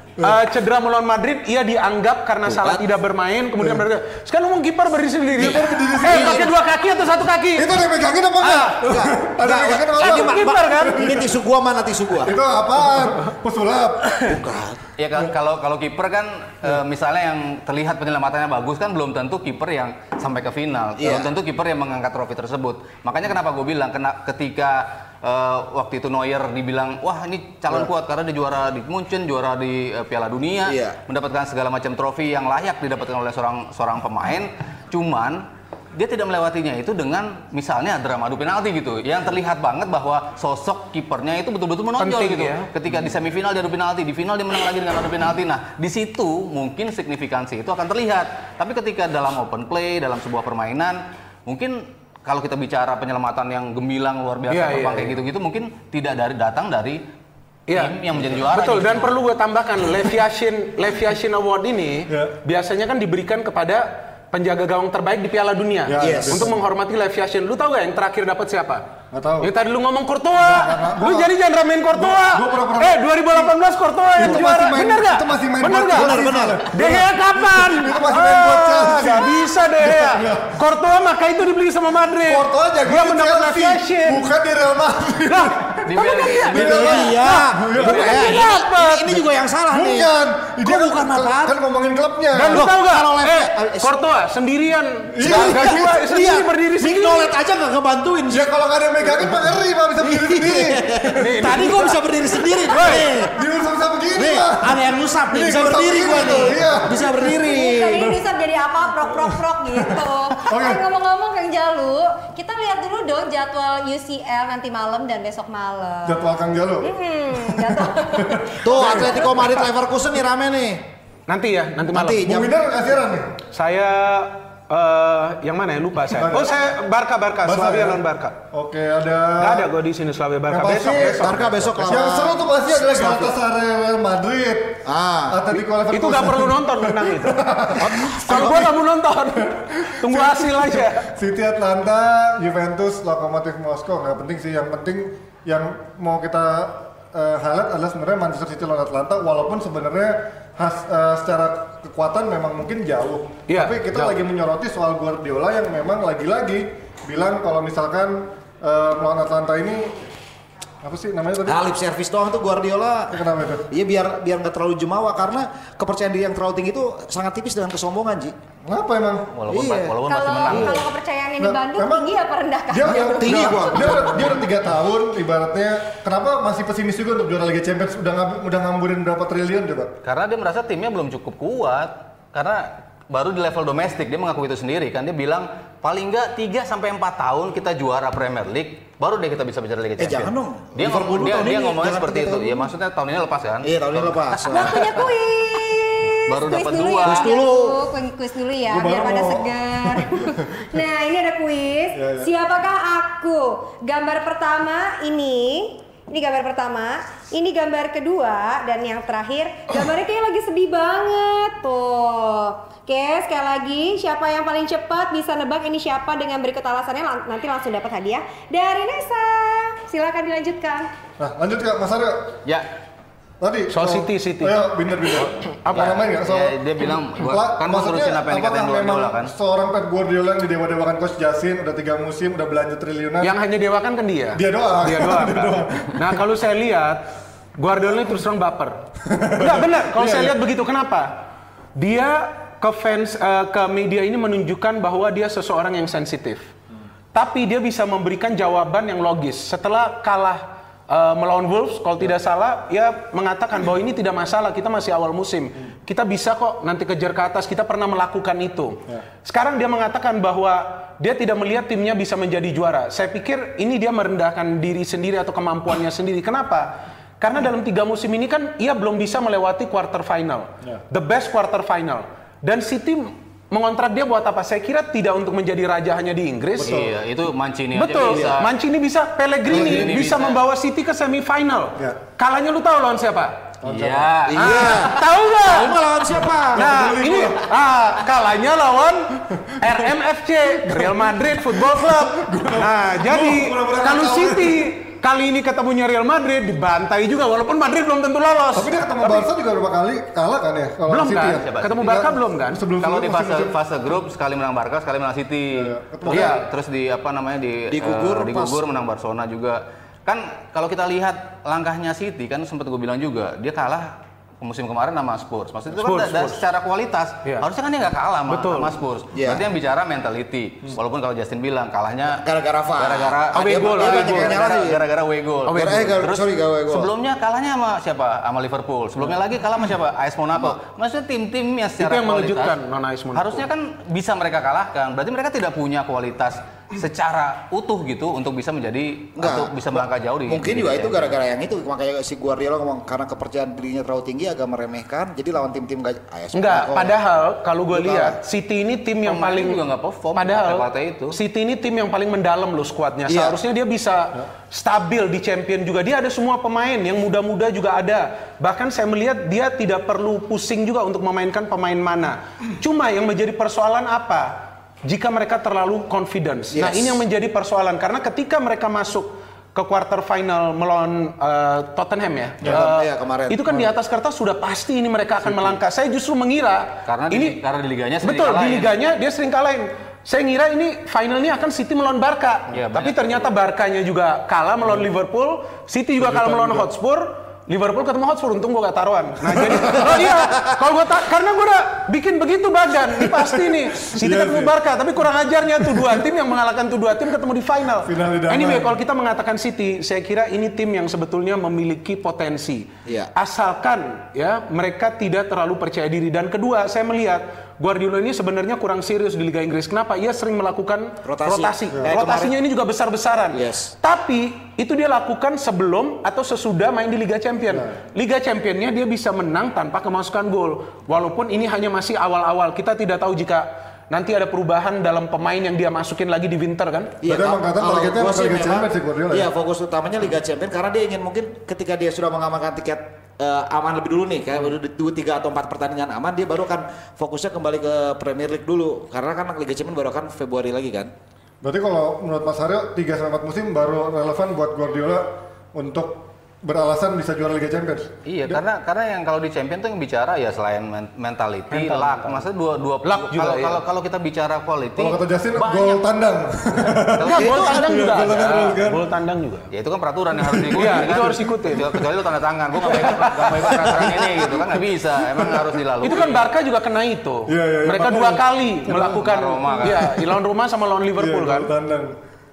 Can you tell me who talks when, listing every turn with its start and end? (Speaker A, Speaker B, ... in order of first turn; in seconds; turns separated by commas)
Speaker A: 0.2-7.7, Speaker B: 2.5-2.9, Speaker C: 5.3-6.5, Speaker B: 5.8-6.5, Speaker C: 7.5-11.3, Speaker B: 8.4-12.4, Speaker A: 10.0-11.2, Speaker C: 12.2-14.4, Speaker B: 14.2-14.8, Speaker D: 15.0-35.4, Speaker B: 21.0-21.3, Speaker B: 30.6-31.0, Speaker D: 35.9-57.0, Speaker A: 42.0-42.7, Speaker A: 54.5-55.1, Speaker A: 57.7-68.8, Speaker D: 57.7-59.1, Speaker C: 62.1-62.3, Speaker C: 65.9-66.6, Speaker B: 66.0-66.5, Speaker C: 69.1-69.5, Speaker A: 69.4-84.2, Speaker C: 70.4-71.3, Speaker C: 71.9-73.5, Speaker C: 74.2-80.6, Speaker B: 75.9-76.7, Speaker C: 82.2-85.9, Speaker A: 85.3-87.3, Speaker D: 85.8-88.3, Speaker C: 86.5-88.4, Speaker B: 86.5-90.1, Speaker A: 87.8-89.2, Speaker C: 89.7-92.7, Speaker B: 90.6-91.5, Speaker A: 92.3-97.3, Speaker B: 92.5-94.0, Speaker C: 95.1-96.0, Speaker B: 95.2-98.5, Speaker C: 98.3-101.8, Speaker B: 99.0-103.3, Speaker A: 101.2-102.0, Speaker A: 102.6-103.1, Speaker C: 103.2-107.2, Speaker B: 104.2-108.1, Speaker E: 107.2-116.2, Speaker C: 107.9-108.2, Speaker C: 109.2-110.8, Speaker C: 116.0-119.2, Speaker E: 116.8-119.1, Speaker B: 118.6-120.8, Speaker A: 121.3-122.3, Speaker B: 121.9-122.5, Speaker C: 122.2-123.4, Speaker A: 123.5-128.4, Speaker C: 126.1-126.6, Speaker C: 127.4-128.0, Speaker C: 128.5-129.7, Speaker A: 129.4-131.5, Speaker C: 130.5-138.8, Speaker B: 130.7-133.3, Speaker B: 134.8-135.5, Speaker A: 135.9-137.4, Speaker B: 137.8-138.6, Speaker A: 138.2-141.0, Speaker C: 139.4-160.0, Speaker A: 153.5-154.2, Speaker C: 160.8-161.7, Speaker B: 161.4-168.3, Speaker C: 163.1-163.7, Speaker C: 168.6-169.3, Speaker D: 169.3-170.8, Speaker B: 169.5-169.9, Speaker E: 170.0-174.0, Speaker B: 170.5-170.8, Speaker C: 171.4-172.1, Speaker C: 172.7-179.9, Speaker B: 172.9-174.4, Speaker D: 180.0-195.0, Speaker B: 190.0-192.7, Speaker B: 193.6-194.8, Speaker E: 194.5-220.9, Speaker D: 196.3-197.3, Speaker B: 197.0-197.8, Speaker C: 198.7-200.8, Speaker C: 201.9-202.3, Speaker C: 221.2-222.4, Speaker C: 223.4-233.3, Speaker A: 223.7-224.6, Speaker A: 225.6-226.0, Speaker D: 225.7-229.3, Speaker A: 233.2-238.8, Speaker C: 234.3-236.2, Speaker C: 239.0-240.3, Speaker A: 239.3-241.2, Speaker A: 241.8-246.5, Speaker A: 247.1-276.8, Speaker C: 276.6-276.9, Speaker D: 276.6-278.5, Speaker A: 277.7-283.5, Speaker B: 278.1-278.4, Speaker D: 279.4-280.4, Speaker C: 283.6-284.3, Speaker D: 283.6-284.9, Speaker B: 284.3-286.6, Speaker A: 284.4-285.8, Speaker C: 286.1-287.5, Speaker A: 286.5-299.3, Speaker C: 289.3-289.8, Speaker C: 290.6-294.7, Speaker C: 298.5-303.6, Speaker A: 300.9-302.6, Speaker D: 301.3-301.9, Speaker D: 302.8-332.6, Speaker C: 305.5-306.4, Speaker A: 306.1-306.4, Speaker B: 307.7-308.6, Speaker A: 315.8-316.4, Speaker A: 318.3-318.7, Speaker B: 319.1-319.4, Speaker B: 322.1-324.8, Speaker A: 323.3-324.4, Speaker A: 325.4-326.0, Speaker B: 325.5-326.9, Speaker A: 331.8-333.5, Speaker D: 333.1-341.2, Speaker B: 339.2-346.9, Speaker A: 346.3-349.6, Speaker B: 347.7-348.2, Speaker D: 349.0-351.1, Speaker A: 350.1-364.3, Speaker B: 353.1-353.4, Speaker A: 364.8-377.4, Speaker B: 366.5-367.0, Speaker B: 372.4-373.5, Speaker D: 376.9-378.8, Speaker A: 378.0-426.9, Speaker D: 382.5-383.3, Speaker C: 386.0-386.7, Speaker C: 389.4-389.8, Speaker B: 389.8-390.4, Speaker C: 393.0-394.5, Speaker C: 395.7-396.0, Speaker C: 397.8-398.8, Speaker B: 402.9-403.1, Speaker B: 411.0-412.3, Speaker B: 413.3-413.7, Speaker C: 417.5-417.7, Speaker B: 427.0-440.9, Speaker C: 427.0-429.3, Speaker C: 441.4-448.4, Speaker D: 448.1-455.8, Speaker A: 451.5-452.2, Speaker A: 452.8-453.6, Speaker C: 454.8-458.8, Speaker D: 456.8-457.3, Speaker A: 457.0-459.5, Speaker B: 457.1-457.9, Speaker D: 459.5-466.3, Speaker C: 460.2-461.0, Speaker A: 460.5-461.7, Speaker A: 462.7-463.6, Speaker B: 463.6-463.9, Speaker C: 465.1-465.5, Speaker A: 465.8-471.5, Speaker C: 467.3-469.1, Speaker D: 468.7-470.0, Speaker C: 471.0-471.9